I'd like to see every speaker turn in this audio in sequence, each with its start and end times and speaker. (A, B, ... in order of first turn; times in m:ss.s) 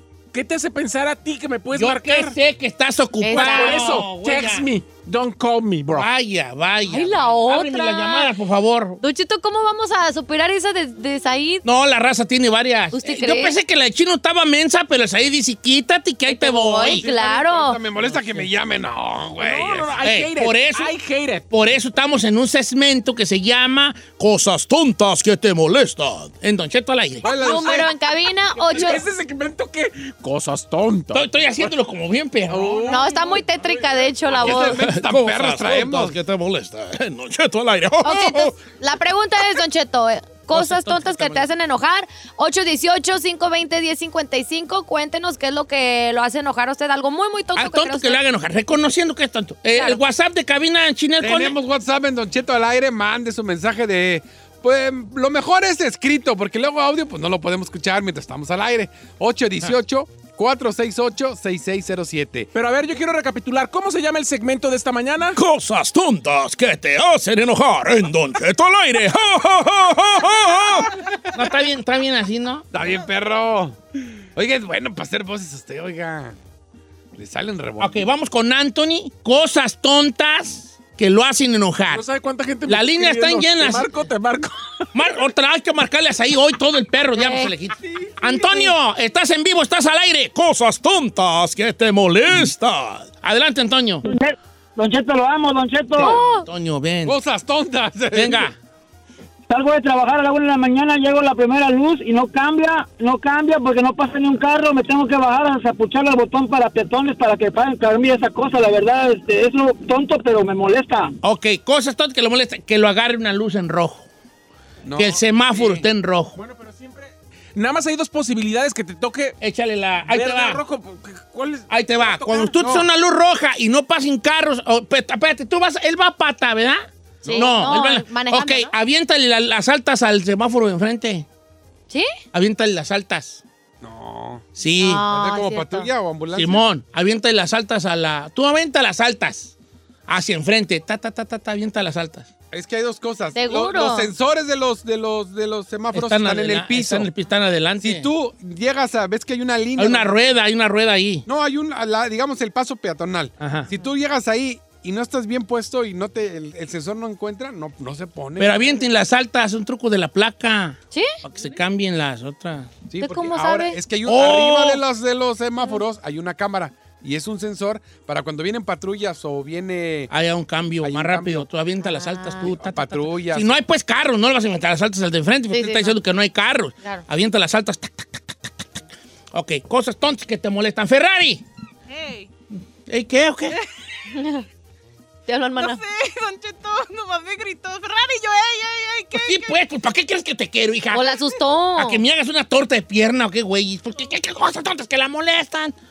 0:00.3-0:02.4 A
0:01.7-0:04.7 B
0:03.2-0:04.0 C
0:03.3-0:06.1 A
0:05.9-0:09.0 B
0:06.9-0:08.3 C
0:09.0-0:11.6 C
0:11.6-0:17.1 B
0:12.9-0:13.6 C
0:16.3-0:17.8 C
0:16.8-0:20.0 D
0:18.0-0:18.5 B
0:19.4-0:21.4 A
0:20.0-0:20.9 B
0:21.5-0:27.3 B
0:27.2-0:27.9 D
0:27.2-0:29.0 C
0:27.3-0:27.9 A
0:28.6-0:31.6 A
0:31.1-0:33.0 B
0:32.5-0:34.5 A
0:32.9-0:34.8 C
0:34.4-0:36.1 D
0:34.7-0:38.6 B
0:38.0-0:48.2 C
0:40.5-0:41.5 B
0:47.5-0:51.6 B
0:51.2-1:02.5 D
1:02.5-1:05.4 A
1:05.3-1:12.6 B
1:12.7-1:13.8 D
1:14.4-1:16.4 D
1:17.2-1:18.0 D
1:17.8-1:22.0 B
1:21.9-1:24.9 A
1:22.6-1:23.9 B
1:24.9-1:34.0 B
1:27.2-1:27.5 C
1:34.0-1:36.2 E
1:35.9-1:37.2 B
1:36.0-1:36.4 C
1:37.0-1:38.5 D
1:38.1-1:38.5 B
1:39.5-1:51.1 E
1:51.2-1:54.1 B
1:54.8-1:55.8 D
1:55.0-1:56.4 B
1:56.4-1:59.4 A
1:59.4-2:00.6 B
2:00.1-2:02.5 A
2:01.7-2:11.3 B
2:02.6-2:02.8 D
2:07.2-2:07.6 D
2:07.2-2:08.7 C
2:12.3-2:13.4 B
2:13.8-2:14.4 D
2:14.6-2:15.0 B
2:14.8-2:15.9 C
2:15.0-2:16.6 D
2:16.3-2:19.5 B
2:20.1-2:22.3 B
2:22.5-2:27.1 D
2:23.3-2:24.1 C
2:25.9-2:28.1 B
2:27.8-2:30.1 D
2:29.8-2:31.2 B
2:31.2-2:38.7 D
2:33.4-2:33.7 B
2:38.4-2:42.8 B
2:42.9-2:50.1 D
2:43.0-2:43.8 C
2:44.0-2:44.8 B
2:50.1-3:01.4 B
2:50.8-2:51.4 D
2:51.8-2:52.5 C
2:52.4-2:53.6 D
2:55.5-2:56.0 C
3:01.9-3:02.3 F
3:02.9-3:03.6 B
3:03.5-3:03.8 F
3:04.1-3:04.4 C
3:05.3-3:05.8 C
3:05.6-3:09.6 F
3:09.1-3:11.1 B
3:10.9-3:12.0 C
3:11.8-3:15.7 B